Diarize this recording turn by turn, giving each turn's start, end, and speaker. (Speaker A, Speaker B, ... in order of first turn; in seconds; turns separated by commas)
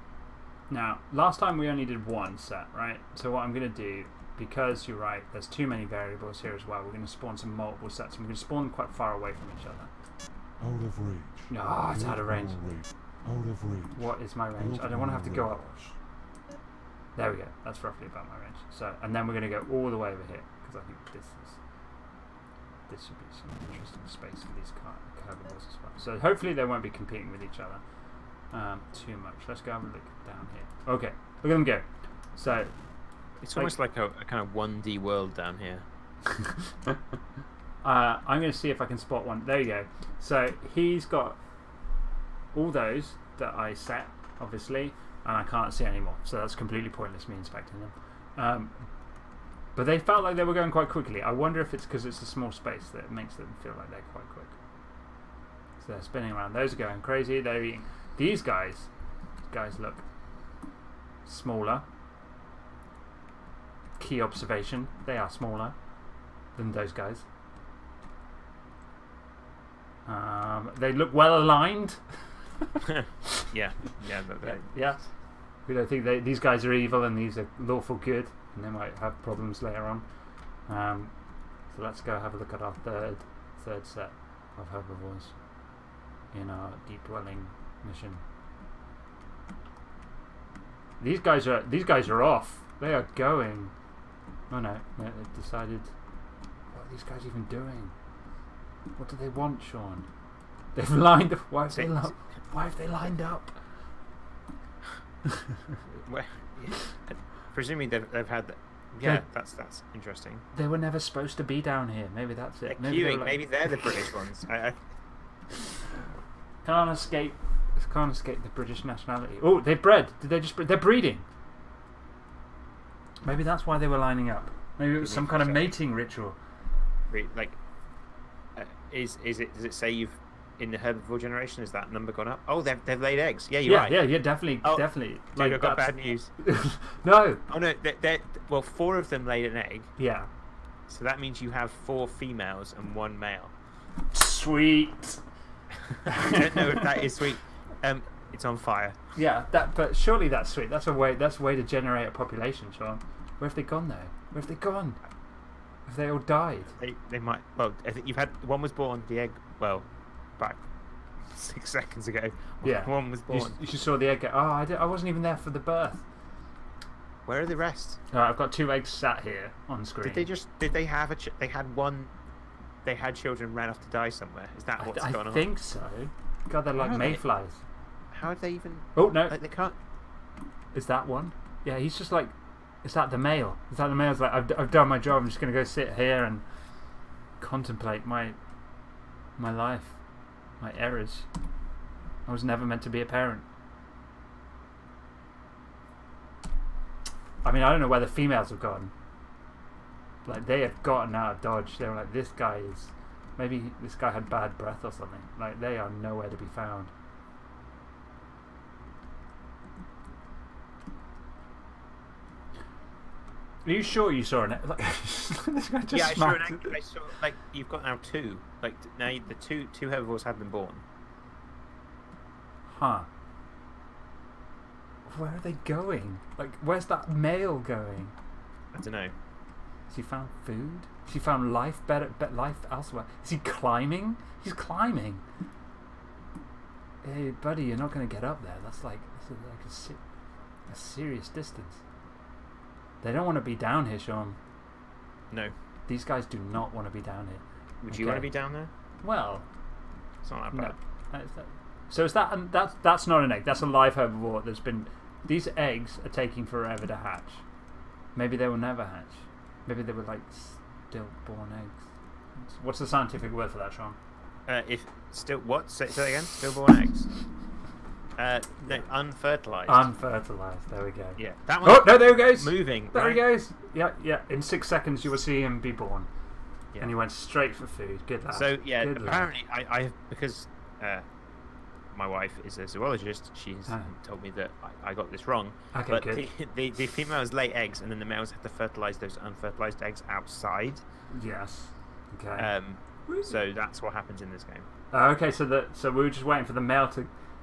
Speaker A: 0.7-9.9, Speaker B: 10.6-15.9, Speaker A: 11.5-12.6, Speaker A: 13.9-15.7, Speaker A: 17.1-21.6, Speaker A: 22.9-27.8, Speaker A: 28.5-32.7, Speaker C: 33.4-35.9, Speaker A: 36.3-37.0, Speaker A: 37.8-41.4, Speaker A: 42.5-48.7, Speaker A: 49.8-54.6, Speaker A: 55.8-58.9, Speaker A: 59.5-60.0, Speaker A: 61.2-61.9, Speaker A: 64.0-65.8, Speaker A: 66.5-67.3, Speaker A: 70.1-72.0, Speaker C: 72.8-74.7, Speaker A: 74.4-75.0, Speaker A: 75.7-80.1, Speaker A: 80.7-81.1, Speaker A: 81.7-85.3, Speaker A: 86.3-88.2, Speaker A: 91.0-93.7, Speaker A: 94.5-95.9, Speaker A: 96.7-97.9, Speaker A: 99.0-100.1, Speaker A: 100.7-103.5, Speaker C: 101.7-102.1, Speaker A: 105.3-105.8, Speaker C: 105.9-110.4, Speaker A: 110.5-114.0, Speaker C: 112.7-114.8, Speaker A: 116.6-121.2, Speaker A: 123.2-126.3, Speaker C: 125.0-125.7, Speaker C: 127.1-127.6, Speaker C: 128.6-134.0, Speaker A: 133.7-137.4, Speaker C: 134.6-136.3, Speaker C: 137.5-139.9, Speaker A: 140.0-140.3, Speaker C: 140.9-143.5, Speaker A: 144.1-145.2, Speaker C: 145.8-149.0, Speaker A: 146.1-147.2, Speaker A: 149.2-155.0, Speaker A: 155.9-156.8, Speaker C: 156.8-160.6, Speaker C: 161.2-163.6, Speaker A: 162.6-166.1, Speaker C: 167.3-168.0, Speaker A: 168.1-170.3, Speaker C: 170.0-172.1, Speaker C: 172.8-175.4, Speaker A: 174.8-177.6, Speaker C: 176.8-177.2, Speaker C: 178.1-179.8, Speaker A: 178.9-179.3, Speaker A: 180.7-186.4, Speaker A: 187.4-188.4, Speaker A: 189.4-190.0, Speaker A: 190.6-191.3, Speaker A: 192.3-193.4, Speaker A: 197.4-198.9, Speaker A: 200.3-206.9, Speaker A: 213.7-216.8, Speaker C: 215.9-220.8, Speaker A: 222.7-223.1, Speaker A: 225.1-228.1, Speaker C: 228.7-229.1, Speaker A: 229.9-235.2, Speaker A: 237.0-240.0, Speaker A: 240.7-241.8, Speaker A: 243.0-244.4, Speaker A: 245.9-248.3, Speaker C: 247.8-248.7, Speaker A: 249.0-249.5, Speaker C: 250.2-250.8, Speaker A: 250.5-257.4, Speaker A: 258.1-261.8, Speaker A: 262.4-264.0, Speaker C: 264.5-267.1, Speaker C: 268.2-269.9, Speaker A: 269.7-276.1, Speaker C: 271.2-273.2, Speaker A: 276.8-279.3, Speaker C: 278.3-281.1, Speaker C: 281.9-290.8, Speaker A: 285.7-286.3, Speaker A: 291.1-292.5, Speaker C: 292.4-294.7, Speaker A: 293.1-293.4, Speaker A: 294.9-297.1